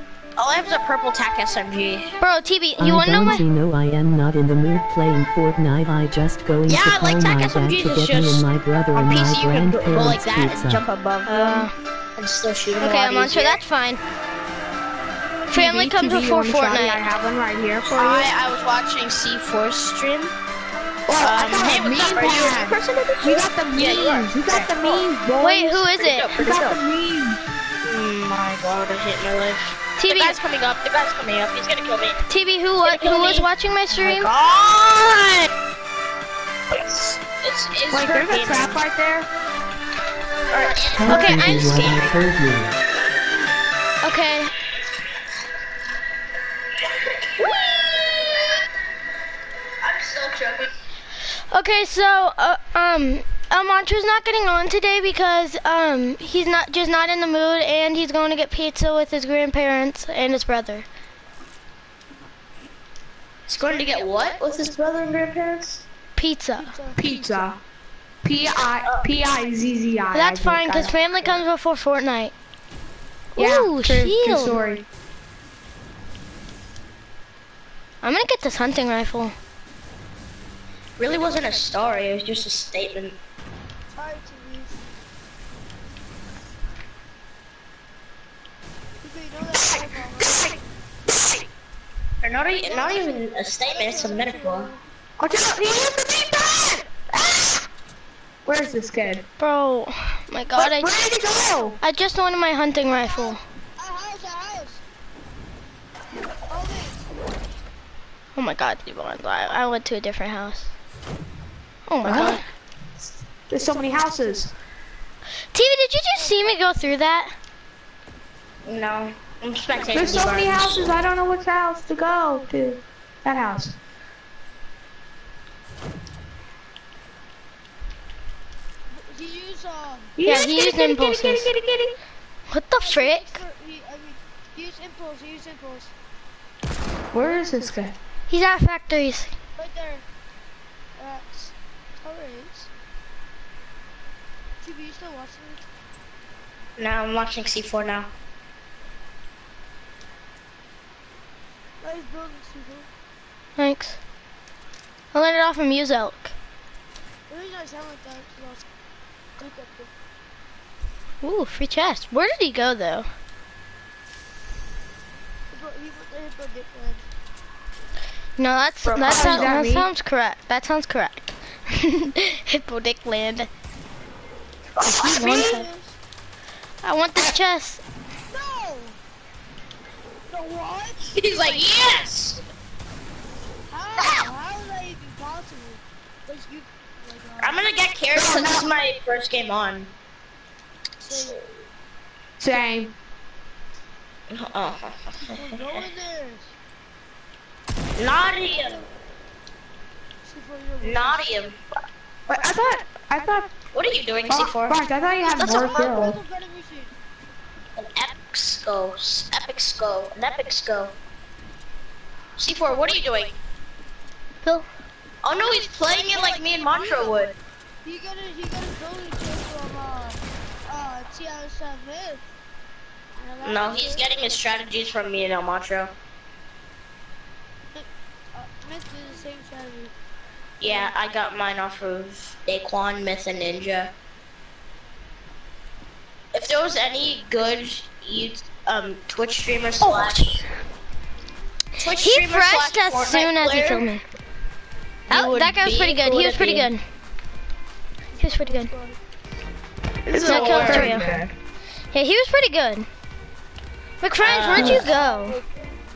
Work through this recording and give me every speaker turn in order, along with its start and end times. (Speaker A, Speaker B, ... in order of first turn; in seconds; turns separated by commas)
Speaker A: 0.4-2.1, Speaker B: 2.2-3.5, Speaker C: 2.8-10.8, Speaker A: 6.7-13.6, Speaker B: 11.3-11.7, Speaker B: 12.8-14.0, Speaker B: 15.5-17.0, Speaker D: 15.5-18.3, Speaker A: 17.9-20.4, Speaker D: 21.1-27.4, Speaker A: 21.2-25.1, Speaker B: 25.4-26.3, Speaker A: 26.0-26.8, Speaker A: 27.8-32.2, Speaker B: 30.0-30.4, Speaker B: 32.3-34.3, Speaker A: 32.8-35.5, Speaker A: 36.8-38.8, Speaker D: 37.9-39.3, Speaker A: 40.5-42.2, Speaker C: 41.0-42.7, Speaker B: 41.0-41.9, Speaker B: 44.0-44.5, Speaker A: 47.3-48.5, Speaker A: 49.8-50.7, Speaker B: 51.5-60.9, Speaker A: 63.5-65.8, Speaker B: 66.2-66.7, Speaker E: 66.6-67.5, Speaker D: 67.0-67.6, Speaker D: 68.2-71.0, Speaker A: 68.8-69.1, Speaker B: 70.1-72.3, Speaker B: 73.3-74.6, Speaker D: 73.4-74.8, Speaker B: 78.0-79.3, Speaker A: 81.0-83.2, Speaker E: 84.0-84.9, Speaker E: 89.0-90.6, Speaker A: 92.2-94.7, Speaker E: 92.6-94.8, Speaker D: 95.2-97.6, Speaker D: 98.5-99.2, Speaker E: 98.5-99.1, Speaker B: 99.4-101.0, Speaker D: 100.6-101.8, Speaker B: 101.8-103.4, Speaker E: 103.2-104.8, Speaker E: 106.5-107.0, Speaker B: 108.3-110.7, Speaker B: 111.9-112.4, Speaker A: 112.0-112.4, Speaker D: 113.5-114.5, Speaker B: 115.5-117.3, Speaker E: 116.2-116.9, Speaker A: 118.7-120.9, Speaker D: 119.9-123.8, Speaker E: 128.9-130.2, Speaker D: 130.2-131.9, Speaker B: 130.2-131.5, Speaker B: 132.5-133.4, Speaker E: 132.8-135.9, Speaker D: 137.1-137.9, Speaker B: 138.3-139.3, Speaker E: 139.6-140.0, Speaker E: 141.0-142.7, Speaker E: 144.6-145.7, Speaker A: 146.8-148.1, Speaker E: 151.8-152.9, Speaker B: 153.6-154.0, Speaker B: 155.1-156.3, Speaker E: 157.3-158.6, Speaker E: 159.4-159.9, Speaker B: 161.2-163.1, Speaker E: 165.5-167.1, Speaker B: 168.4-173.5, Speaker A: 168.8-169.6, Speaker D: 169.0-169.9, Speaker A: 174.8-175.6, Speaker B: 175.0-175.7, Speaker E: 175.1-175.9, Speaker B: 176.8-177.8, Speaker E: 178.3-179.0, Speaker E: 180.3-181.7, Speaker A: 181.2-182.4, Speaker E: 183.7-187.8, Speaker A: 184.0-184.3, Speaker A: 187.4-189.9, Speaker D: 188.1-188.7, Speaker A: 191.0-191.5, Speaker E: 191.1-191.3, Speaker D: 192.4-192.9, Speaker A: 194.3-195.9, Speaker E: 195.3-196.6, Speaker A: 198.0-198.8, Speaker E: 198.1-198.9, Speaker E: 200.2-201.4, Speaker A: 200.8-201.6, Speaker D: 202.3-203.5, Speaker E: 203.2-203.5, Speaker A: 203.7-205.9, Speaker E: 204.1-204.4, Speaker D: 204.3-206.2, Speaker E: 205.5-206.9, Speaker A: 207.8-211.0, Speaker A: 212.4-213.4, Speaker A: 215.2-217.4, Speaker E: 215.5-222.2, Speaker E: 223.2-224.6, Speaker A: 223.4-225.9, Speaker E: 227.8-229.9, Speaker A: 230.6-233.9, Speaker E: 230.6-230.9, Speaker A: 236.3-240.4, Speaker B: 239.8-240.4, Speaker A: 241.8-243.9, Speaker B: 241.9-244.0, Speaker A: 245.1-246.7, Speaker B: 245.1-246.8, Speaker E: 248.2-249.0, Speaker B: 248.2-248.7, Speaker A: 250.1-251.0, Speaker D: 250.1-251.3, Speaker B: 250.2-251.1, Speaker B: 251.9-252.9, Speaker B: 254.0-255.4, Speaker A: 254.2-254.9, Speaker E: 254.5-255.5